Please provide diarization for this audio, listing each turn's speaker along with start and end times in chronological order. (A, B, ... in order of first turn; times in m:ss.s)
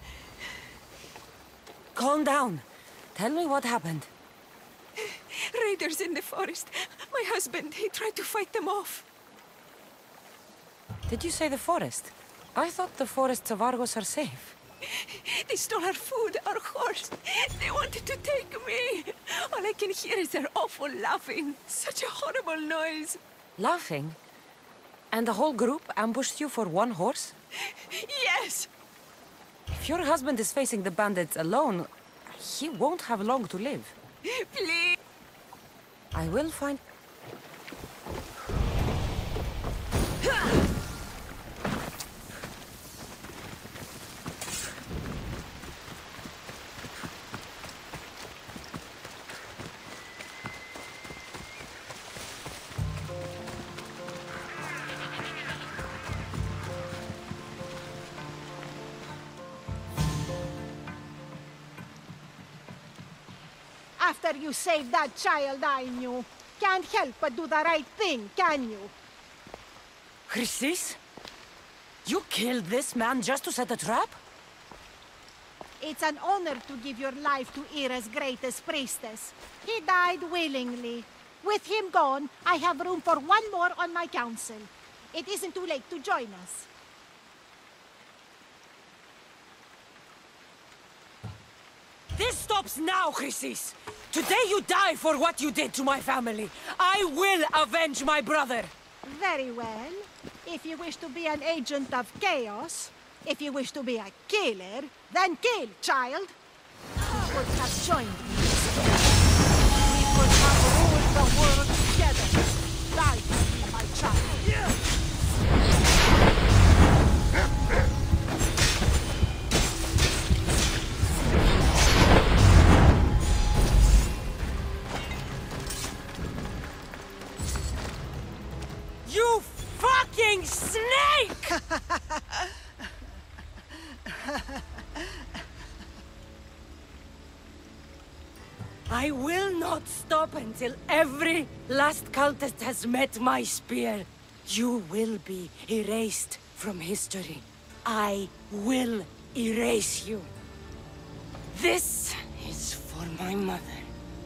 0:01.9-0:04.1 A
0:05.0-0:09.0 B
0:11.1-0:14.6 A
0:14.8-0:23.2 B
0:23.6-0:24.2 A
0:25.1-0:27.3 A
0:27.6-0:28.7 B
0:29.7-0:33.9 A
0:34.2-0:35.0 B
0:36.1-0:36.8 A
1:04.0-1:08.9 C
1:10.3-1:11.0 A
1:12.0-1:14.2 A
1:15.8-1:26.7 C
1:32.1-1:38.7 A
1:39.0-1:46.4 C
1:47.1-1:48.6 C
1:49.8-1:54.5 C
2:09.0-2:11.6 A
2:18.9-2:30.3 A
2:31.5-2:33.9 A